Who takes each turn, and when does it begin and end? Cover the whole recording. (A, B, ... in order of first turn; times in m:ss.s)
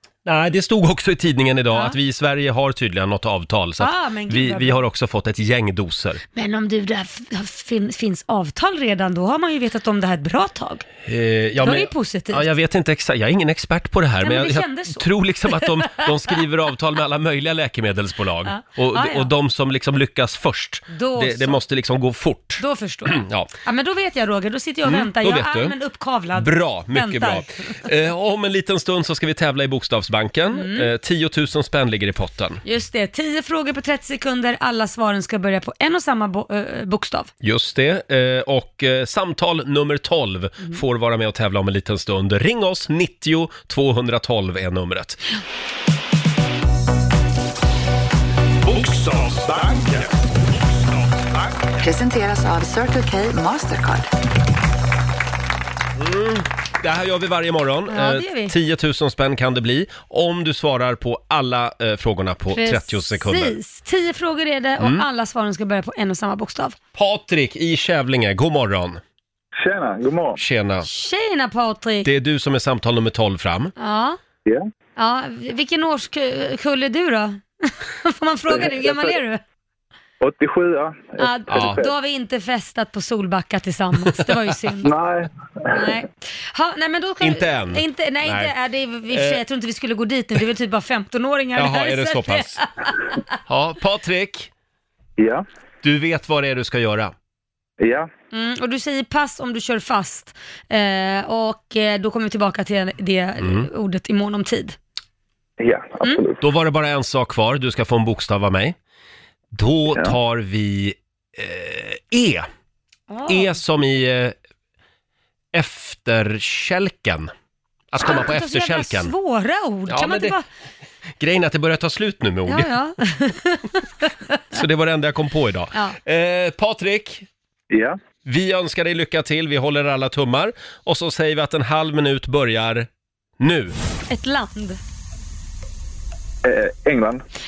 0:00.3-0:06.2 A
0:03.8-0:04.8 B
0:06.3-0:10.8 B
0:11.0-0:23.5 A
0:11.6-0:12.5 B
0:14.2-0:16.0 B
0:18.5-0:19.3 B
0:20.9-0:21.6 B
0:22.6-0:27.8 B
0:24.9-0:25.8 A
0:26.4-0:32.6 A
0:30.5-0:30.9 B
0:32.6-0:37.3 B
0:37.4-0:45.2 A
0:48.6-0:51.7 C
0:51.8-0:54.1 D
0:56.0-1:03.6 A
0:57.9-0:58.5 B
1:02.5-1:06.8 B
1:04.8-1:05.0 A
1:07.0-1:09.0 A
1:09.6-1:10.4 E
1:10.4-1:10.9 A
1:10.8-1:12.1 B
1:12.0-1:13.7 A
1:13.8-1:14.2 B
1:15.0-1:19.4 B
1:18.5-1:19.2 E
1:20.2-1:21.9 E
1:21.2-1:24.9 B
1:21.5-1:21.8 A
1:24.8-1:26.0 E
1:25.7-1:33.2 B
1:27.2-1:28.5 A
1:29.1-1:29.4 A
1:31.6-1:32.6 A
1:33.5-1:34.5 A
1:35.2-1:35.4 E
1:35.8-1:37.1 A
1:37.8-1:38.1 E
1:38.3-1:44.8 B
1:43.4-1:43.7 A
1:45.6-1:46.4 E
1:46.4-1:48.8 A
1:49.5-1:52.5 A
1:53.1-1:53.6 B
1:53.3-1:54.4 A
1:55.5-1:57.3 A
1:57.9-1:59.1 A
1:58.0-2:00.4 B
1:59.9-2:00.4 A
2:01.2-2:02.7 A
2:02.5-2:04.4 B
2:04.5-2:07.3 A
2:07.7-2:08.0 E
2:08.2-2:12.9 A
2:13.4-2:13.8 A
2:14.1-2:14.8 B
2:16.4-2:17.2 E